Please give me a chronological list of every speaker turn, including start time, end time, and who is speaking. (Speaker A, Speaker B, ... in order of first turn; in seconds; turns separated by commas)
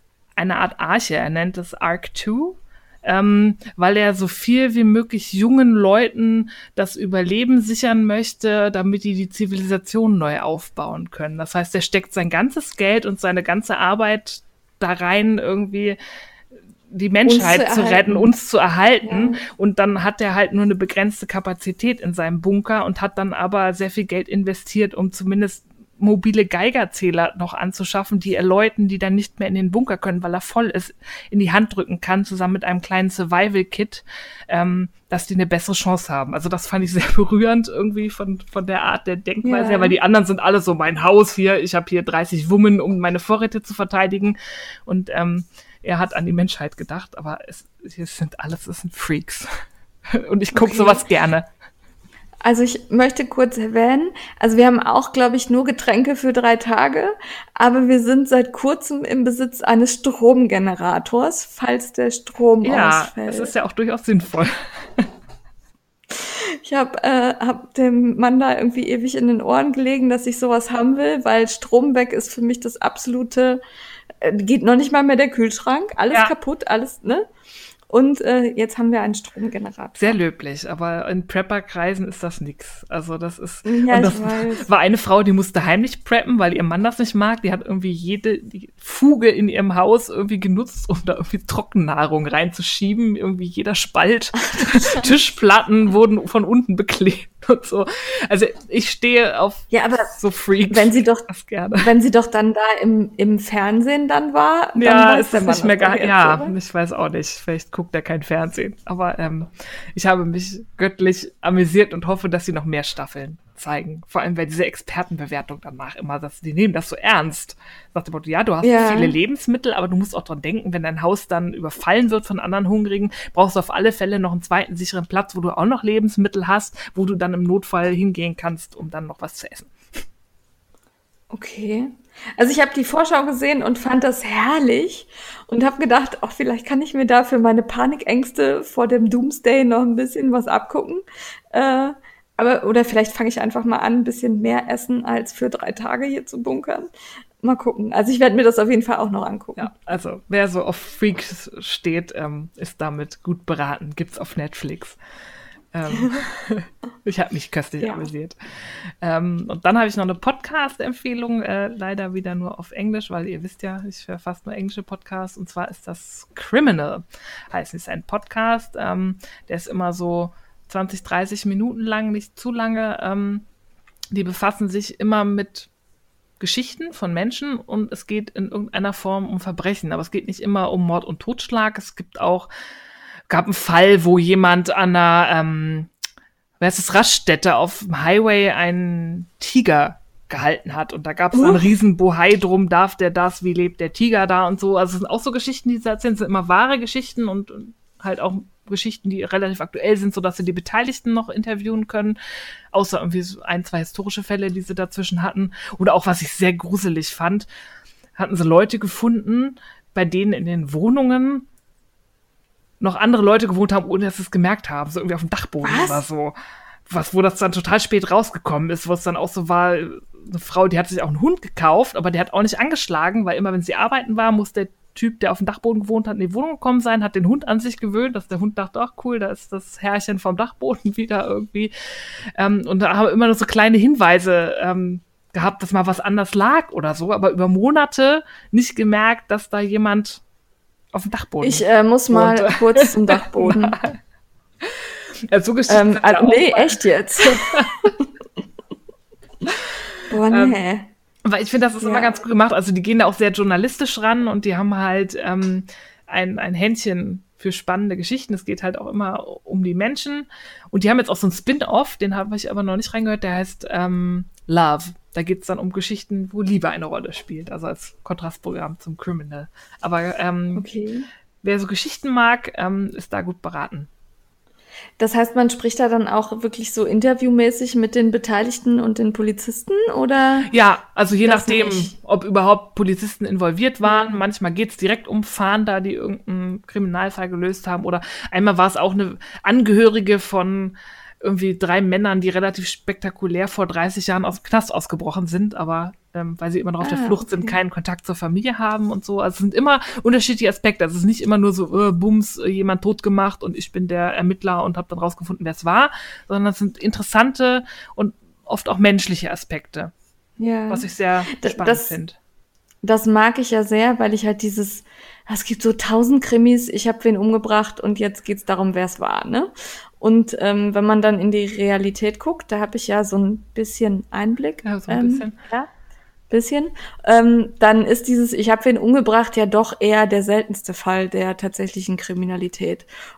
Speaker A: 0.4-16.0, Speaker A: 16.9-49.5, Speaker B: 17.2-18.3, Speaker B: 19.0-19.4, Speaker B: 39.4-40.0, Speaker A: 50.1-51.5, Speaker B: 50.5-51.0, Speaker B: 52.4-63.5, Speaker A: 62.6-65.1, Speaker B: 66.2-73.6, Speaker B: 74.2-77.3, Speaker B: 77.9-80.2, Speaker A: 80.0-101.9, Speaker B: 83.6-84.7, Speaker B: 94.5-95.1, Speaker B: 99.7-100.1, Speaker B: 100.7-101.3, Speaker B: 101.8-106.5, Speaker A: 104.8-130.0, Speaker B: 118.6-119.1, Speaker B: 131.3-146.9, Speaker B: 147.4-149.7, Speaker A: 149.6-155.0, Speaker A: 155.7-158.3, Speaker B: 155.9-156.2, Speaker B: 157.8-158.1, Speaker A: 159.0-173.4, Speaker A: 174.1-175.7, Speaker A: 176.4-182.5, Speaker A: 183.3-185.9, Speaker A: 186.6-202.2, Speaker B: 191.3-191.7, Speaker A: 202.7-207.5, Speaker A: 208.2-211.4, Speaker A: 212.8-216.3, Speaker B: 215.6-216.0, Speaker A: 216.9-231.7, Speaker A: 232.3-240.2, Speaker A: 240.9-244.0, Speaker B: 241.4-243.8, Speaker A: 245.3-247.9, Speaker B: 245.7-248.1, Speaker B: 250.1-250.9, Speaker A: 250.3-250.6, Speaker A: 251.2-270.6, Speaker B: 251.8-252.2, Speaker B: 270.6-271.1, Speaker A: 271.4-273.9, Speaker B: 275.0-280.5, Speaker A: 280.5-309.9, Speaker B: 281.2-281.9, Speaker B: 283.8-284.2, Speaker B: 296.8-297.6, Speaker B: 310.4-311.9, Speaker A: 310.7-312.1, Speaker B: 312.8-325.7, Speaker A: 324.6-325.3, Speaker B: 326.3-332.9